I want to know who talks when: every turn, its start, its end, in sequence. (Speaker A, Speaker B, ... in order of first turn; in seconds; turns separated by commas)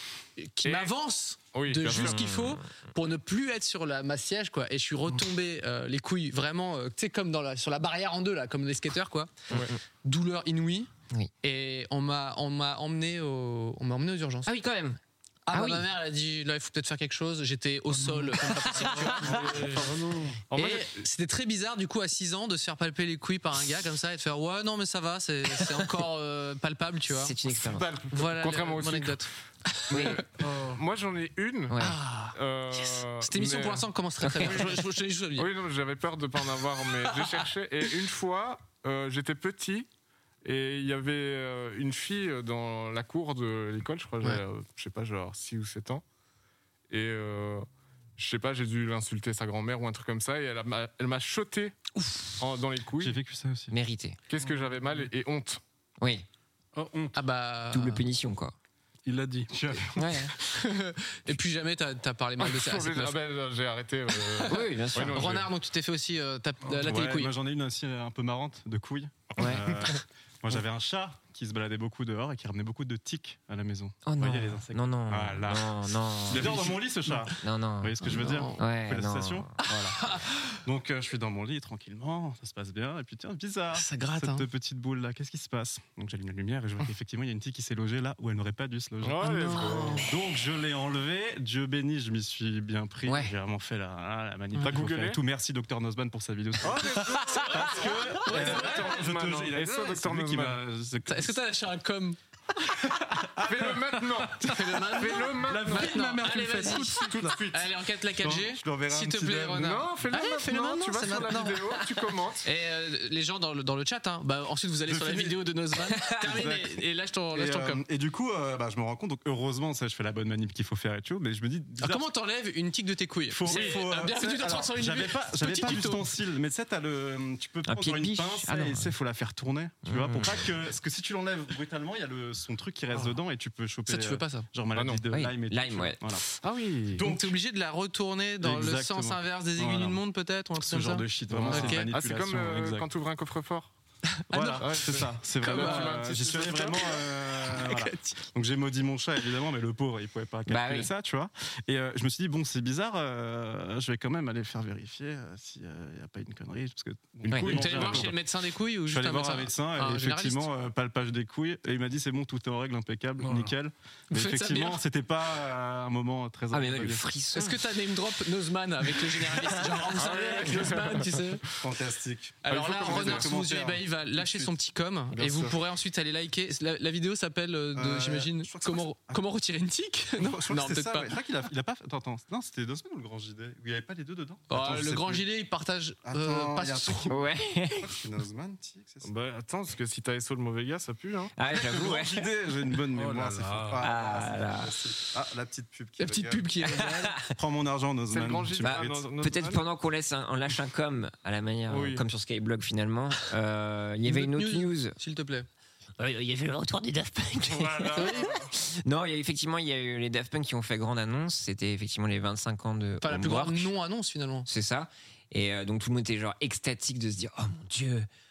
Speaker A: 0.4-9.5, Speaker B: 0.6-0.9, Speaker B: 1.5-2.3, Speaker C: 1.9-2.6, Speaker C: 9.5-9.8, Speaker A: 10.0-10.9, Speaker A: 11.4-14.5, Speaker C: 14.4-15.0, Speaker A: 15.4-19.5, Speaker C: 15.5-15.8, Speaker C: 18.4-19.6, Speaker D: 18.5-20.4, Speaker B: 19.3-20.9, Speaker A: 20.5-27.3, Speaker C: 27.1-27.9, Speaker B: 27.5-29.2, Speaker A: 28.1-30.2, Speaker B: 29.9-33.9, Speaker C: 29.9-30.3, Speaker C: 31.7-32.0, Speaker A: 31.8-35.5, Speaker C: 34.2-34.7, Speaker B: 34.4-34.8, Speaker B: 35.3-39.9, Speaker A: 37.2-37.4, Speaker B: 40.4-46.0, Speaker B: 46.9-51.8, Speaker B: 52.4-53.1, Speaker E: 53.0-53.7, Speaker C: 53.7-54.2, Speaker B: 54.3-55.6, Speaker C: 56.0-56.2, Speaker D: 56.7-57.1, Speaker A: 57.1-58.0, Speaker C: 57.7-58.5, Speaker D: 59.0-59.5, Speaker E: 59.5-60.2, Speaker C: 60.0-60.3, Speaker A: 60.5-63.2, Speaker B: 62.4-65.5, Speaker A: 64.3-67.3, Speaker C: 64.5-65.3, Speaker E: 66.8-79.9, Speaker C: 69.4-69.7, Speaker C: 74.0-76.8, Speaker A: 76.3-77.3, Speaker C: 77.4-79.9, Speaker A: 78.0-78.6, Speaker A: 79.7-80.5, Speaker E: 80.6-101.3, Speaker A: 83.7-84.5, Speaker B: 89.0-90.1, Speaker A: 89.2-90.1, Speaker B: 94.6-95.2, Speaker B: 96.6-100.6, Speaker A: 97.4-97.7, Speaker A: 98.2-99.0, Speaker A: 101.1-102.2, Speaker B: 103.3-107.7, Speaker D: 103.7-104.4, Speaker A: 104.4-111.8, Speaker D: 105.3-107.4, Speaker E: 108.2-109.7, Speaker B: 109.5-112.5, Speaker A: 112.4-117.8, Speaker E: 114.9-115.4, Speaker E: 116.2-116.8, Speaker E: 117.3-122.1, Speaker A: 121.8-126.1, Speaker E: 123.3-136.2, Speaker C: 127.6-128.9, Speaker C: 129.8-130.5, Speaker A: 133.8-134.5, Speaker B: 134.7-135.0, Speaker C: 135.1-136.0, Speaker B: 136.4-137.1, Speaker E: 136.9-137.3, Speaker A: 137.0-141.9, Speaker E: 138.4-140.0, Speaker E: 140.6-142.8, Speaker B: 141.3-143.7, Speaker A: 144.3-146.2, Speaker E: 144.3-158.2, Speaker B: 144.6-146.9, Speaker A: 146.8-148.2, Speaker C: 150.5-150.9, Speaker B: 157.3-158.1, Speaker C: 157.3-157.7, Speaker A: 157.4-160.5, Speaker E: 158.8-167.0, Speaker D: 163.2-163.5, Speaker A: 164.1-164.8, Speaker C: 166.5-167.7, Speaker A: 167.3-171.4, Speaker C: 169.3-169.8, Speaker B: 169.9-171.3, Speaker E: 171.6-174.5, Speaker A: 172.4-181.1, Speaker B: 172.5-173.3, Speaker B: 175.1-175.6, Speaker E: 177.7-179.2, Speaker E: 180.2-185.2, Speaker A: 184.5-187.2, Speaker E: 186.0-189.1, Speaker C: 187.1-188.0, Speaker B: 189.0-191.3, Speaker C: 191.4-192.3, Speaker E: 191.5-196.6, Speaker D: 192.9-193.8, Speaker C: 193.8-194.8, Speaker A: 196.0-197.2, Speaker C: 196.7-197.2, Speaker E: 197.3-199.2, Speaker B: 198.1-199.6, Speaker C: 198.6-204.9, Speaker B: 201.7-202.1, Speaker A: 204.0-205.5, Speaker C: 206.0-213.7, Speaker B: 207.5-208.4, Speaker A: 207.9-208.3, Speaker A: 213.0-214.5, Speaker C: 214.4-218.1